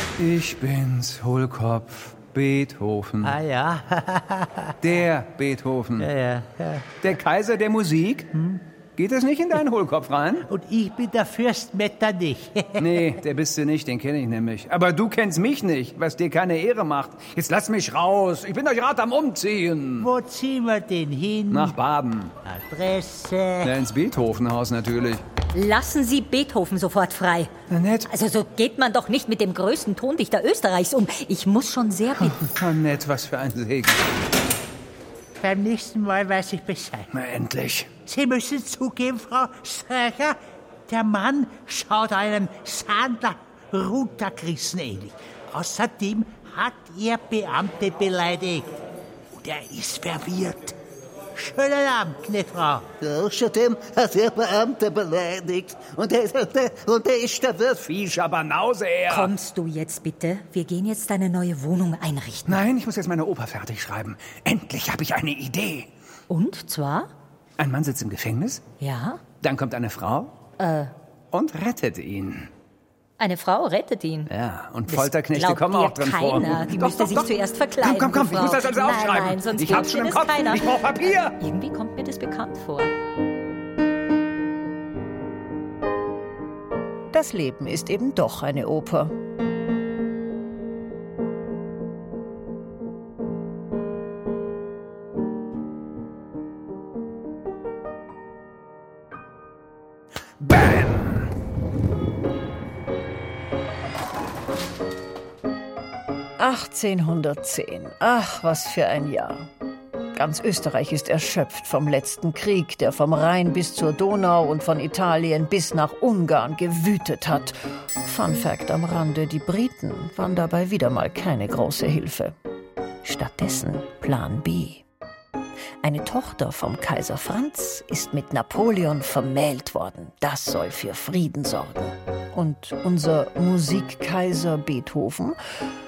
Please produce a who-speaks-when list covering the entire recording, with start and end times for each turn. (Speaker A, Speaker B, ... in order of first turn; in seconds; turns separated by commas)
Speaker A: 0.2-3.4, Speaker B: 3.2-4.7, Speaker A: 4.8-6.1, Speaker B: 6.0-7.0, Speaker A: 7.0-8.3, Speaker A: 9.0-10.5, Speaker B: 10.5-13.0, Speaker A: 12.8-20.1, Speaker B: 20.0-21.8, Speaker A: 21.5-22.3, Speaker B: 22.4-23.7, Speaker A: 23.6-25.2, Speaker C: 25.5-27.5, Speaker A: 27.7-28.1, Speaker C: 28.1-32.5, Speaker A: 32.2-34.0, Speaker B: 35.4-37.1, Speaker A: 37.1-37.9, Speaker B: 38.1-40.4, Speaker B: 40.9-48.8, Speaker B: 49.4-50.8, Speaker B: 51.4-52.9, Speaker D: 53.0-57.8, Speaker A: 57.8-59.3, Speaker C: 59.1-62.7, Speaker A: 62.5-65.9, Speaker C: 66.3-67.1, Speaker A: 67.6-68.7, Speaker C: 68.8-69.2, Speaker A: 69.4-70.4, Speaker C: 70.6-70.9, Speaker A: 71.3-72.5, Speaker C: 73.2-74.3, Speaker A: 74.3-81.4, Speaker C: 74.9-82.9, Speaker E: 87.1-89.1, Speaker A: 100.4-101.2, Speaker E: 106.4-109.5, Speaker E: 110.1-122.3, Speaker E: 123.0-124.8, Speaker E: 125.8-135.4